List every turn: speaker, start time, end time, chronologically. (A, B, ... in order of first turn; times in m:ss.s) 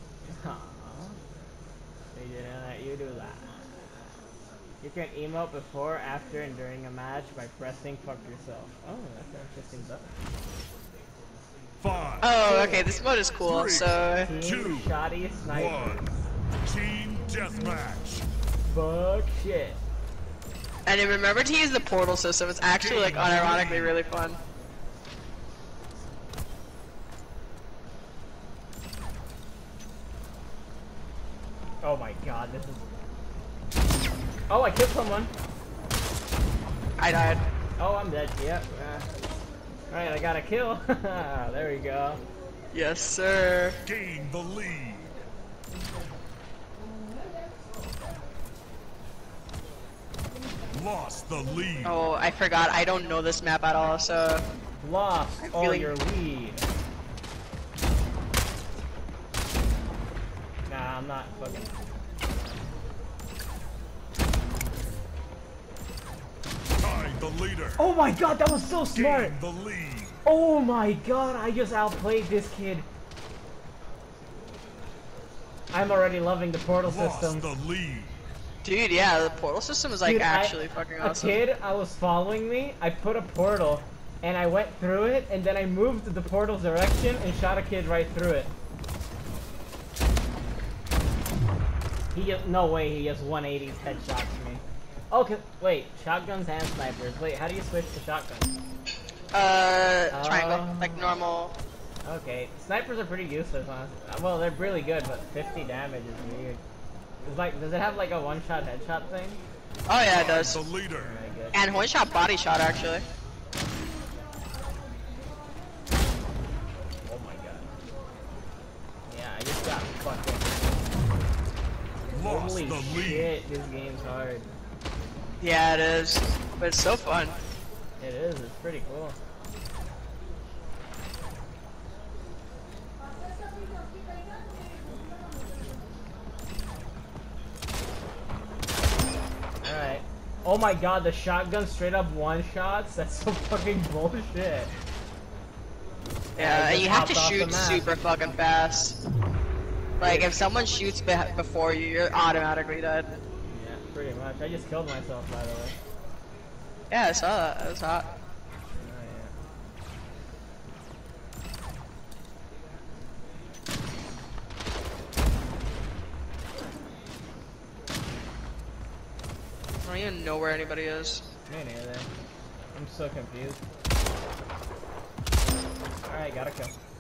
0:00.3-0:01.2 A
0:02.2-0:03.6 A
0:04.8-0:10.1 A
0:11.8-0:12.3 B
0:12.2-0:14.3 C
0:12.4-0:12.9 A
0:13.4-0:15.0 B
0:14.1-0:16.1 A
0:15.5-0:18.3 B
0:18.7-0:19.8 A
0:20.9-0:24.4 C
0:22.7-0:24.0 B
0:31.8-0:32.8 A
0:34.5-0:35.3 A
0:37.0-0:37.4 C
0:37.8-0:39.0 A
0:39.9-0:42.2 A
0:42.7-0:43.8 C
0:43.9-0:45.1 B
0:50.7-0:52.1 B
0:51.8-0:54.4 C
0:54.8-0:56.6 A
0:55.4-0:55.9 C
1:00.7-1:01.7 A
1:06.8-1:07.8 B
1:07.8-1:09.4 A
1:08.9-1:10.2 B
1:10.2-1:12.9 A
1:15.7-1:17.5 A
1:16.8-1:18.1 B
1:18.6-1:21.4 C
1:20.0-1:28.5 A
1:32.1-1:38.5 A
1:39.3-1:41.5 C
1:40.1-1:41.2 A
1:42.0-1:46.6 A
1:47.2-1:49.4 A
1:49.9-1:50.6 C
1:50.1-1:51.2 B
1:50.9-1:51.7 A
1:51.5-1:53.0 C
1:57.1-1:57.7 A
1:59.1-2:00.5 A
2:02.1-2:03.3 B
2:02.2-2:04.4 A
2:05.4-2:07.4 C
2:08.0-2:09.2 A
2:19.6-2:24.7 A
2:26.4-2:28.0 A
2:26.4-2:29.0 C
2:30.0-2:33.2 C
2:30.0-2:30.4 A
2:33.5-2:35.8 A
2:36.9-2:38.1 C
2:38.8-2:39.3 A
2:49.8-2:51.2 C
2:51.5-2:52.1 A
2:52.8-2:53.6 A
2:56.0-2:56.7 A